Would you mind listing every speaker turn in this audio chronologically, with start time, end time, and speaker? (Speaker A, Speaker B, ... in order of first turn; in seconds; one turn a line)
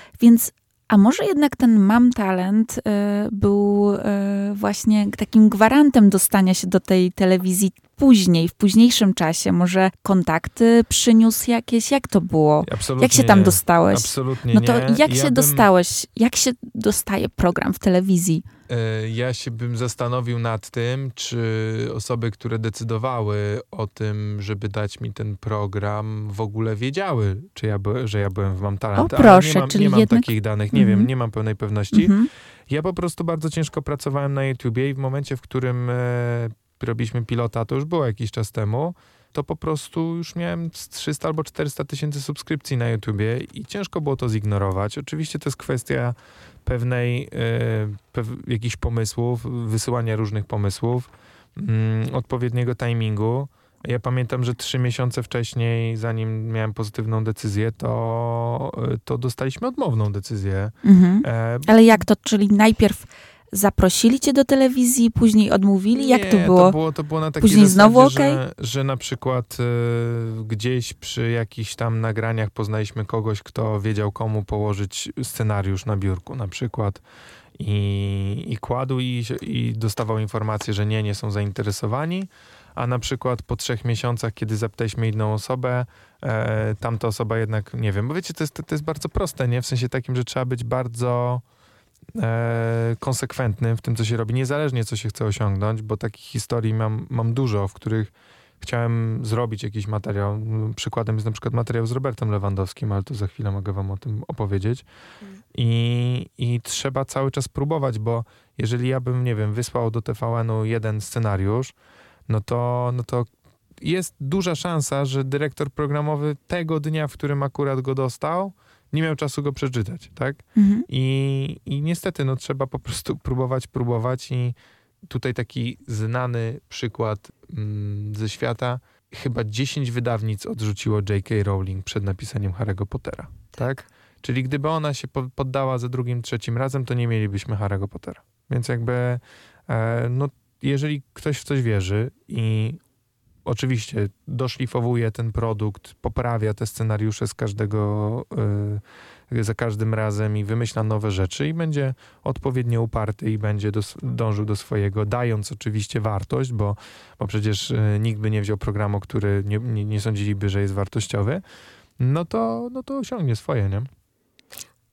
Speaker A: 0.2-18.4
Speaker B: 12.6-15.7
Speaker B: 18.7-32.1
Speaker A: 29.0-31.1
Speaker A: 31.9-32.3
Speaker B: 32.7-62.1
Speaker A: 60.9-66.8
Speaker B: 65.9-77.0
Speaker A: 67.4-68.4
Speaker B: 77.6-91.4
Speaker B: 92.2-104.8
Speaker B: 105.5-111.7
Speaker B: 112.3-142.8
Speaker A: 120.6-120.9
Speaker B: 143.4-161.4
Speaker B: 162.0-163.9